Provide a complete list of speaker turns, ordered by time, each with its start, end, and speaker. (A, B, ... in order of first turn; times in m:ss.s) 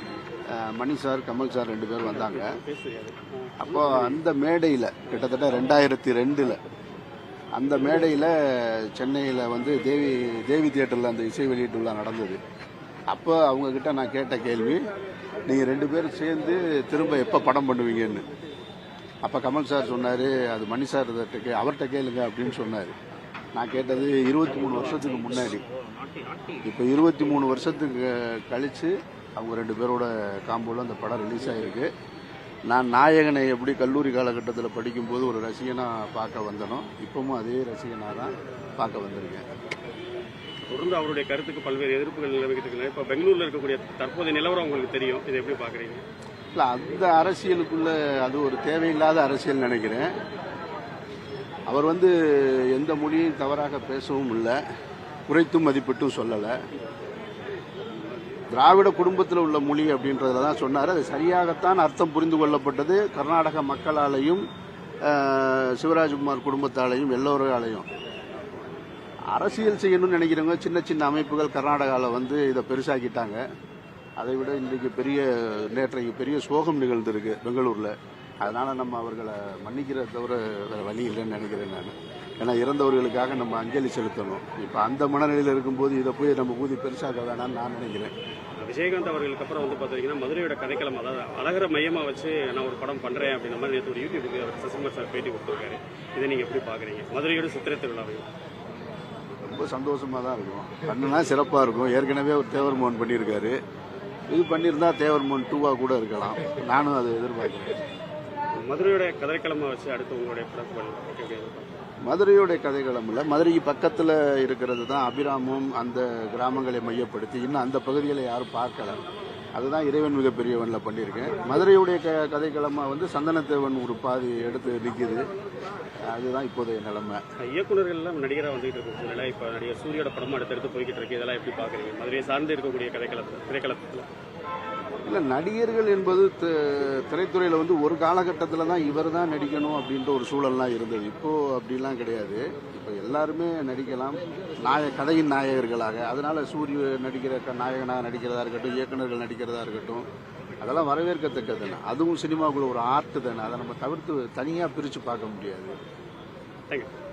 0:00.5-0:02.6 A
0:02.0-0:04.2 B
0:03.6-0:06.6 A
0:07.6-0:12.4 A
0:13.1-0:14.8 A
0:15.5-0:18.2 A
0:19.2-0:23.0 A
0:23.6-0:25.6 A
0:24.5-0:26.6 B
0:26.6-0:31.9 A
0:32.7-0:39.4 A
0:40.7-0:46.0 B
0:46.6-0:50.1 A
0:51.7-0:54.6 A
0:55.3-0:56.6 A
0:58.5-1:04.4 A
1:05.1-1:07.9 A
1:09.3-1:13.4 A
1:14.2-1:28.1 A
1:28.6-1:38.3 B
1:39.5-1:43.6 A
1:44.3-1:47.8 A
1:48.6-1:51.7 B
1:52.1-1:59.0 A
1:59.6-2:05.3 A
2:06.1-2:07.2 A
2:07.4-2:14.1 B
2:15.1-2:30.1 A
2:30.6-2:35.8 A